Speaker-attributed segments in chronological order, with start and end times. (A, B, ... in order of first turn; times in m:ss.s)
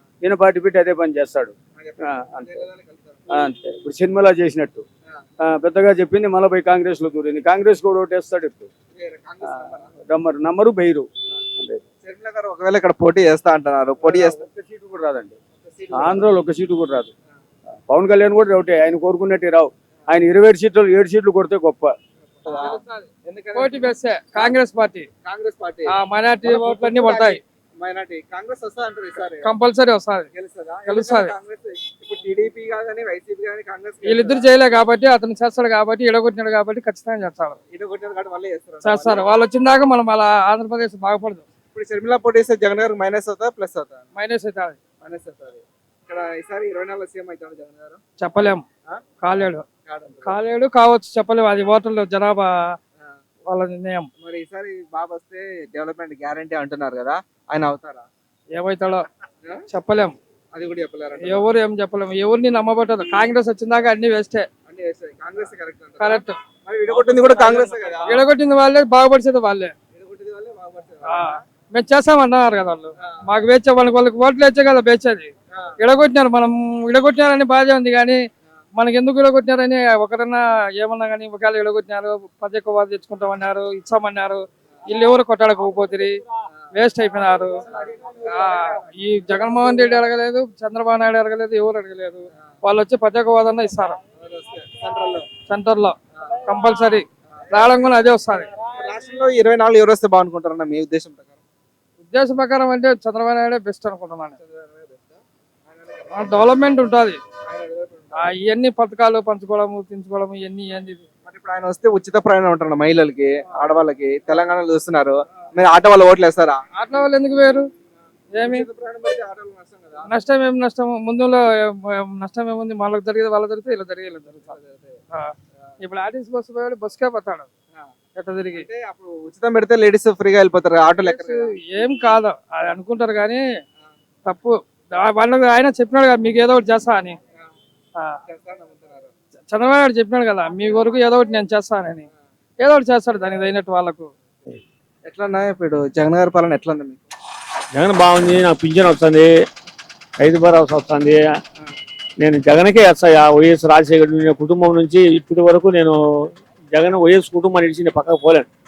0:00.2-0:01.5 A
0:01.8-0:03.2 B
0:02.0-0:02.6 A
0:03.3-0:04.8 A
0:05.4-0:08.7 A
0:08.9-0:09.9 B
0:10.0-0:11.8 A
0:12.0-0:14.4 B
0:14.0-0:15.4 A
0:15.6-0:16.2 B
0:15.9-0:17.1 A
0:17.9-0:21.9 A
0:22.4-0:24.5 B
0:22.5-0:25.1 C
0:25.2-0:25.9 B
0:25.9-0:27.4 C
0:26.4-0:29.6 B
0:29.4-0:30.3 C
0:30.3-0:34.5 B
0:30.8-0:31.3 C
0:34.0-0:37.6 C
0:37.7-0:39.2 B
0:38.8-0:41.4 C
0:41.7-0:44.1 B
0:44.1-0:44.8 C
0:45.0-0:48.0 B
0:48.2-0:48.6 C
0:49.2-0:49.6 C
0:49.8-0:50.4 B
0:50.2-0:52.7 C
0:53.4-0:54.1 C
0:54.2-0:58.1 B
0:58.5-0:59.0 C
0:59.7-1:00.2 C
1:00.5-1:01.5 B
1:01.2-1:04.5 C
1:04.7-1:08.3 B
1:06.0-1:09.7 C
1:09.9-1:11.4 B
1:11.1-1:18.2 C
1:18.8-1:26.2 C
1:26.7-1:27.6 C
1:27.6-1:28.8 B
1:28.3-1:34.0 C
1:34.2-1:35.3 B
1:35.5-1:38.5 C
1:38.7-1:41.4 B
1:42.0-1:44.3 C
1:44.4-1:45.2 B
1:45.8-1:46.5 B
1:46.1-1:47.2 C
1:47.4-1:48.3 B
1:48.2-1:51.0 C
1:51.2-1:56.6 B
1:56.8-1:57.7 C
1:58.3-1:58.7 C
1:58.4-2:00.1 B
2:00.1-2:04.5 C
2:04.3-2:05.0 B
2:05.1-2:07.5 C
2:08.2-2:08.6 C
2:08.5-2:11.5 B
2:11.0-2:13.4 C
2:14.3-2:17.2 C
2:18.2-2:19.1 B
2:19.5-2:22.1 C
2:22.6-2:24.1 C
2:25.0-2:27.0 B
2:27.7-2:29.3 D
2:30.2-2:31.2 D
2:32.2-2:36.0 D
2:36.7-2:38.4 D